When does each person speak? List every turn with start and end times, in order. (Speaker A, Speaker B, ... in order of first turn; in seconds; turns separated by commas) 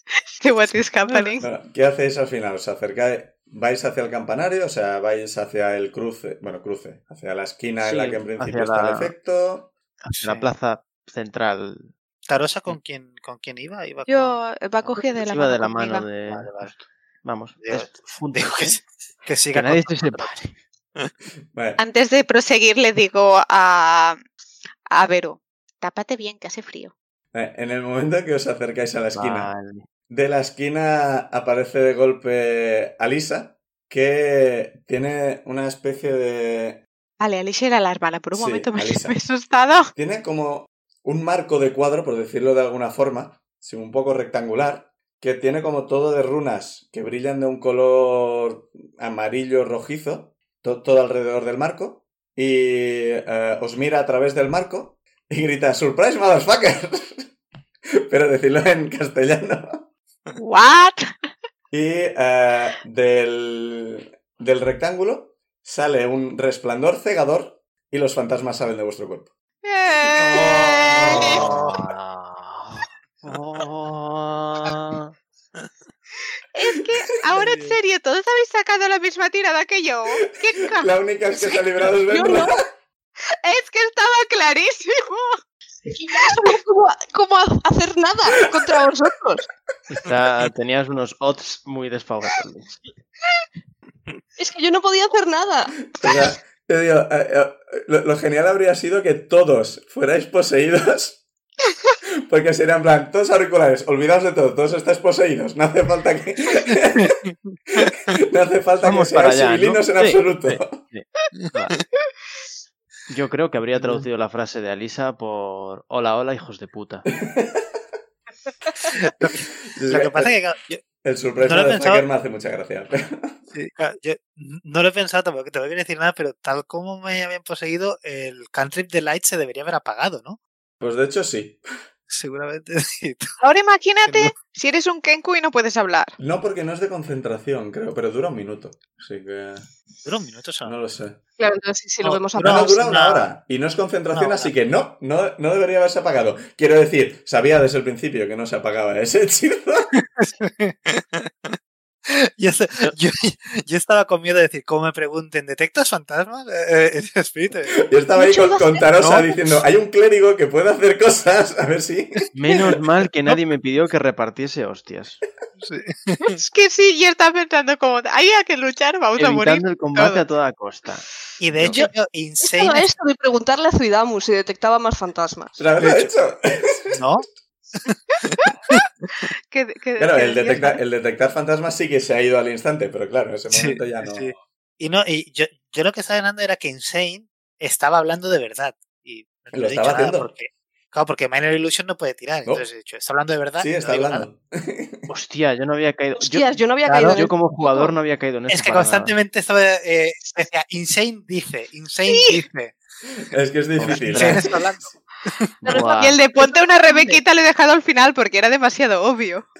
Speaker A: 0.4-1.4, Speaker B: 1.4-9.7, Speaker C: 7.8-9.1, Speaker D: 10.1-10.5, Speaker C: 10.1-11.9, Speaker D: 12.3-14.4, Speaker A: 14.1-16.1, Speaker C: 14.8-18.8, Speaker D: 16.2-16.7, Speaker D: 17.6-20.3, Speaker C: 19.5-20.6, Speaker B: 21.5-21.8, Speaker A: 21.8-24.2, Speaker A: 24.9-26.9, Speaker B: 27.3-29.5, Speaker C: 29.2-29.8, Speaker B: 30.1-36.8, Speaker A: 37.2-39.9, Speaker B: 38.3-39.1, Speaker B: 40.0-57.3, Speaker B: 58.1-59.9, Speaker A: 60.4-61.1, Speaker B: 61.7-69.3, Speaker A: 69.6-71.3, Speaker D: 70.1-71.9, Speaker C: 71.0-75.1, Speaker D: 73.2-73.7, Speaker A: 76.5-80.9, Speaker D: 77.4-77.7, Speaker B: 80.6-82.7, Speaker E: 82.0-82.6, Speaker A: 83.3-85.4, Speaker E: 85.9-89.5, Speaker C: 89.9-92.8, Speaker E: 94.4-96.3, Speaker B: 96.0-101.2, Speaker B: 102.3-107.1, Speaker D: 106.7-107.9, Speaker B: 107.8-110.8, Speaker C: 108.8-111.8, Speaker D: 111.3-111.7, Speaker C: 113.1-117.1, Speaker D: 113.8-114.0, Speaker B: 117.1-117.7, Speaker D: 118.8-120.8, Speaker B: 119.7-120.3, Speaker B: 121.0-123.4, Speaker D: 121.4-122.0, Speaker D: 123.5-130.4, Speaker B: 130.8-131.6, Speaker D: 132.1-133.3, Speaker A: 133.4-136.2, Speaker D: 134.1-134.3, Speaker B: 136.2-139.7, Speaker D: 140.0-140.8, Speaker B: 140.6-141.2, Speaker E: 141.4-143.1, Speaker D: 142.0-143.3, Speaker B: 142.4-149.9, Speaker D: 144.1-144.5, Speaker D: 150.0-151.5, Speaker D: 152.1-157.8, Speaker B: 157.8-162.2, Speaker E: 158.2-158.7, Speaker D: 158.9-159.3, Speaker D: 162.2-163.4, Speaker C: 162.3-165.2, Speaker D: 165.6-166.4, Speaker A: 166.2-170.2, Speaker C: 169.2-171.8, Speaker D: 171.4-172.9, Speaker E: 172.5-175.7, Speaker B: 175.6-177.0, Speaker D: 175.8-176.2, Speaker D: 176.9-177.2, Speaker D: 177.8-178.8, Speaker A: 179.5-180.8, Speaker B: 180.0-184.4, Speaker D: 183.5-194.3, Speaker B: 189.5-190.3, Speaker B: 193.6-195.1, Speaker C: 195.1-199.1, Speaker E: 196.2-198.0, Speaker D: 196.9-197.2, Speaker D: 198.5-202.8, Speaker A: 202.1-202.4, Speaker B: 203.2-204.4, Speaker C: 203.8-204.6, Speaker D: 203.9-205.5, Speaker C: 205.6-206.2, Speaker E: 205.6-207.2, Speaker A: 206.0-209.5